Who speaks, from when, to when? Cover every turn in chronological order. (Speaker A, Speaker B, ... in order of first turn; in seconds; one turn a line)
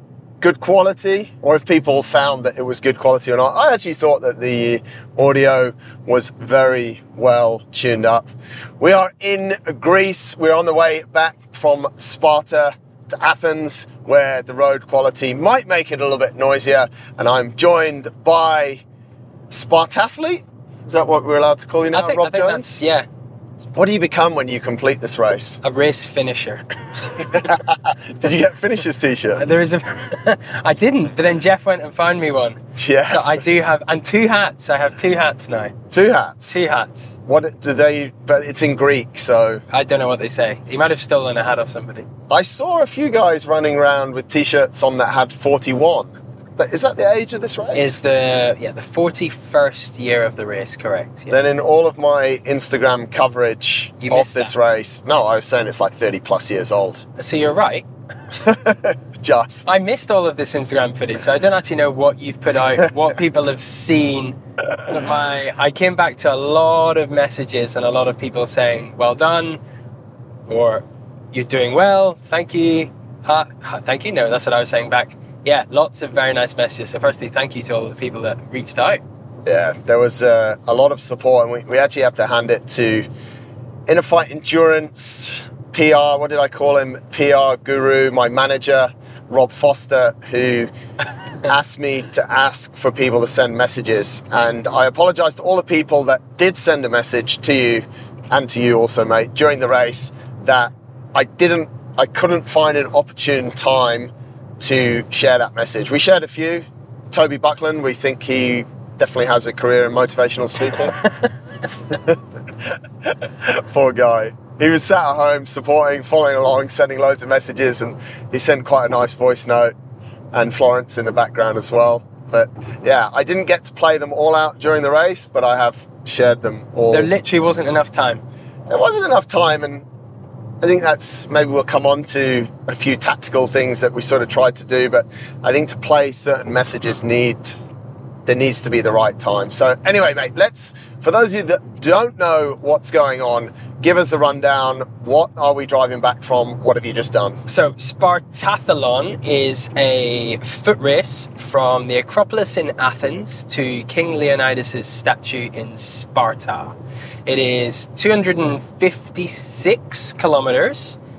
Speaker A: 0.4-18.8
Speaker A: 19.5-22.7
Speaker B: 21.9-23.1
Speaker A: 23.8-25.6
Speaker B: 25.6-27.5
Speaker A: 27.2-29.4
Speaker B: 29.4-35.8
Speaker A: 32.8-33.5
Speaker A: 35.9-36.6
Speaker B: 36.5-37.2
Speaker A: 37.3-39.6
Speaker B: 39.7-42.1
Speaker A: 42.3-48.0
Speaker B: 47.7-51.4
Speaker A: 51.3-57.0
Speaker B: 54.0-54.5
Speaker B: 57.2-57.9
Speaker A: 58.3-59.7
Speaker B: 59.7-69.6
Speaker B: 70.5-79.0
Speaker A: 79.5-83.1
Speaker A: 83.9-90.7
Speaker A: 91.5-111.0
Speaker A: 111.9-119.7
Speaker A: 120.3-127.1
Speaker B: 126.9-128.2
Speaker A: 128.7-129.9
Speaker A: 130.6-137.6
Speaker A: 138.3-147.4
Speaker B: 147.5-161.0